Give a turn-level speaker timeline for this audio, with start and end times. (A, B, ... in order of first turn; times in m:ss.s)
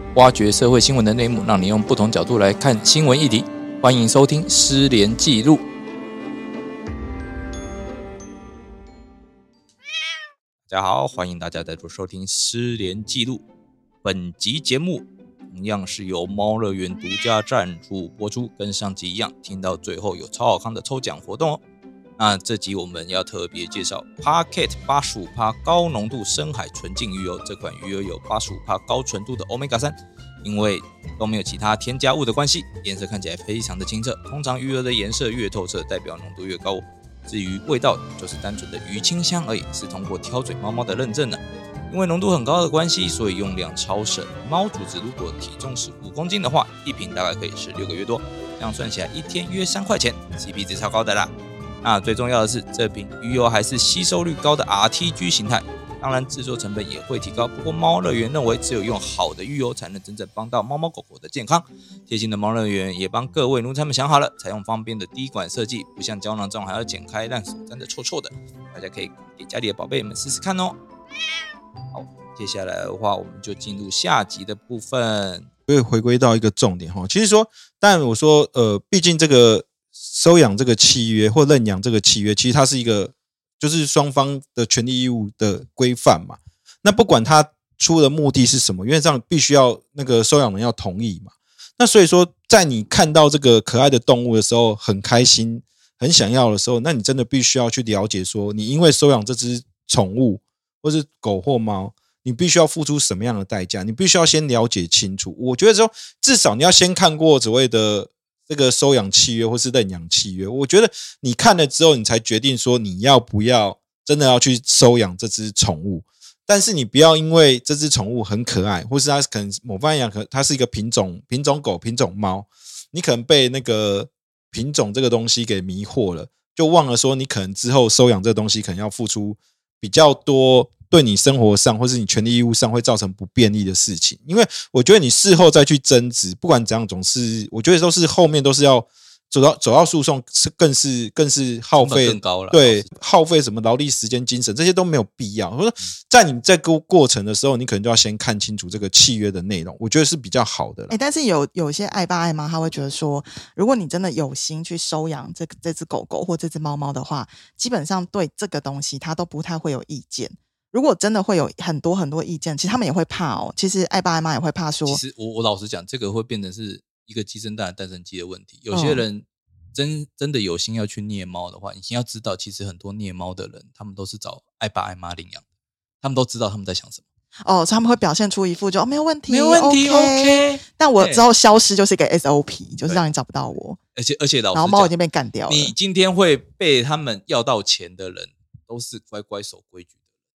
0:00.1-0:05.6 A
0:10.7-0:13.4 A
0:14.0-0:21.6 A
0:22.2-1:10.8 A
1:11.9-1:15.5 A
1:15.7-2:30.9 B
2:21.8-2:22.9 A
2:30.9-2:45.0 C
2:44.8-2:55.4 A
2:48.7-2:49.0 C
2:56.0-2:57.0 A
2:57.4-3:03.8 C
2:59.3-3:01.2 A
3:03.9-3:04.9 A
3:04.5-3:05.7 C
3:05.5-3:10.0 A